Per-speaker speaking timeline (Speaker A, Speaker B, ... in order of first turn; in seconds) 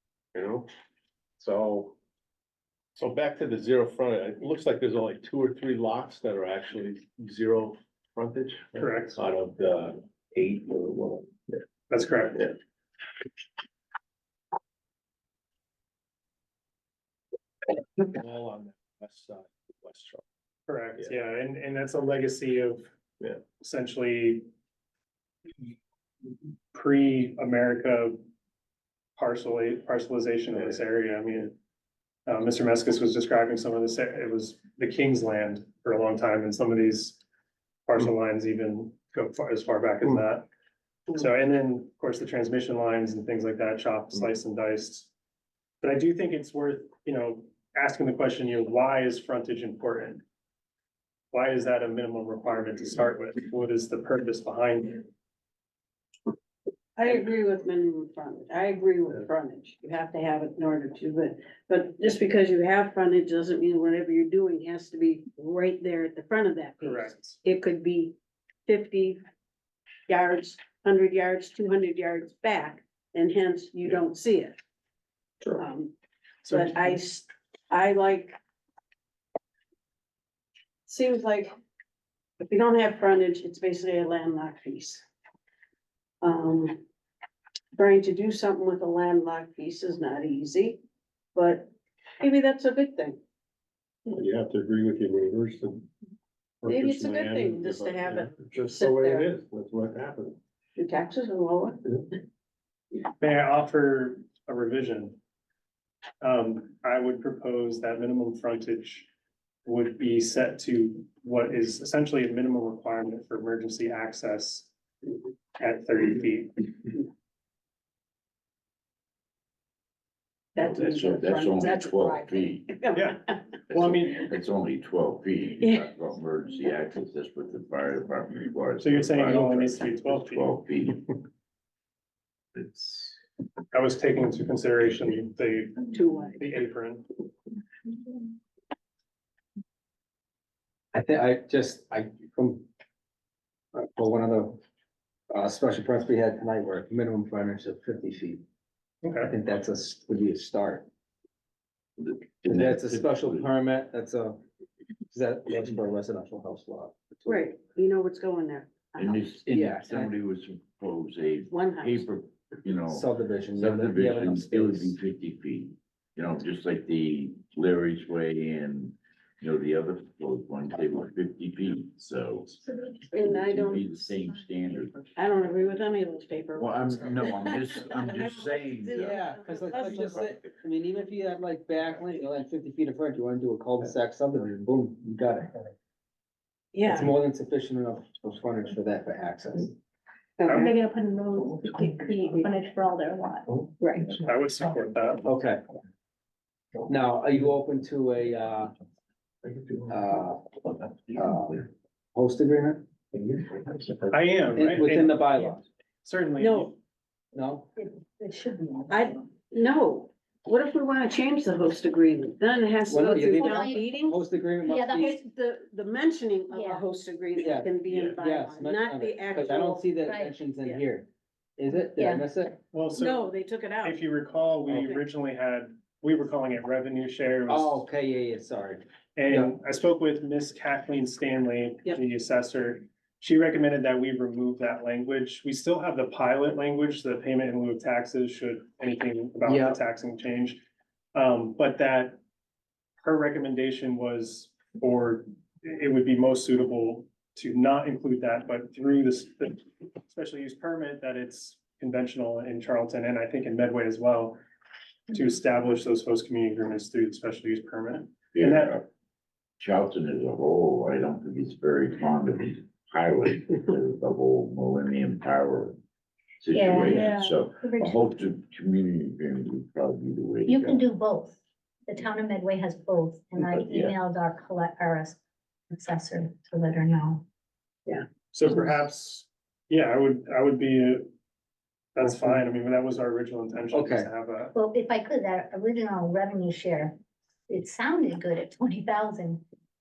Speaker A: 0.3-0.7, 1.4-1.9, 3.0-11.3, 18.0-20.2, 94.1-95.9, 96.6-100.4
Speaker B: 8.8-9.2, 11.9-12.5, 20.7-22.9, 23.6-24.5, 26.7-28.2, 29.2-31.6, 32.3-37.2, 37.9-40.5, 41.1-45.1, 45.8-50.2, 51.3-55.1, 66.8-67.4, 76.4-77.0, 103.2-105.2, 106.2-109.1, 109.6-114.7, 115.6-116.7, 122.9-124.3, 128.8-130.6, 133.7-137.1, 149.0-149.3, 194.2-195.2, 204.1-205.2, 206.0-206.8, 222.7-223.3, 223.8-227.8, 229.2-240.6, 241.1-242.2, 243.0-254.4, 255.1-258.8, 278.3-281.1, 281.9-284.5
Speaker C: 57.0-68.1, 68.7-69.2, 70.1-74.6, 75.5-75.9, 76.5-78.4, 80.8-81.5, 82.4-85.0, 86.2-86.8, 87.7-90.8, 91.3-93.2, 96.6-99.3, 100.8-101.8, 120.5-123.3, 125.6-125.8, 135.9-136.4, 157.2-159.2, 161.5-162.0, 173.1-174.0, 175.1-180.3, 186.7-187.1, 190.4-190.7, 193.8-194.1, 206.4-206.7, 208.9-214.2, 214.9-220.8, 222.9-224.0, 224.7-225.0, 266.9-267.2
Speaker D: 120.6-122.8, 123.7-131.2, 132.6-133.1, 152.0-153.5, 159.0-175.1, 176.6-179.2, 217.9-218.1, 258.3-258.9, 259.6-265.8, 266.4-270.8, 273.5-273.9
Speaker E: 140.9-142.7, 143.7-144.6, 145.3-148.4, 149.2-150.9, 152.4-154.4, 155.1-157.4, 159.5-160.1, 162.9-164.9, 178.9-185.7, 186.8-189.8, 195.2-195.6, 196.8-198.7, 199.9-200.4, 201.1-202.8, 204.5-205.7, 207.3-207.7, 212.9-215.2, 217.4-221.1, 221.6-222.6, 227.5-229.5, 239.5-239.8, 283.7-284.1
Speaker F: 191.6-193.4, 207.8-209.2, 213.4-213.8, 214.6-215.2, 216.5-216.8, 220.0-220.3, 222.0-222.2, 266.5-268.1, 270.5-275.2, 275.7-277.2, 284.5-289.4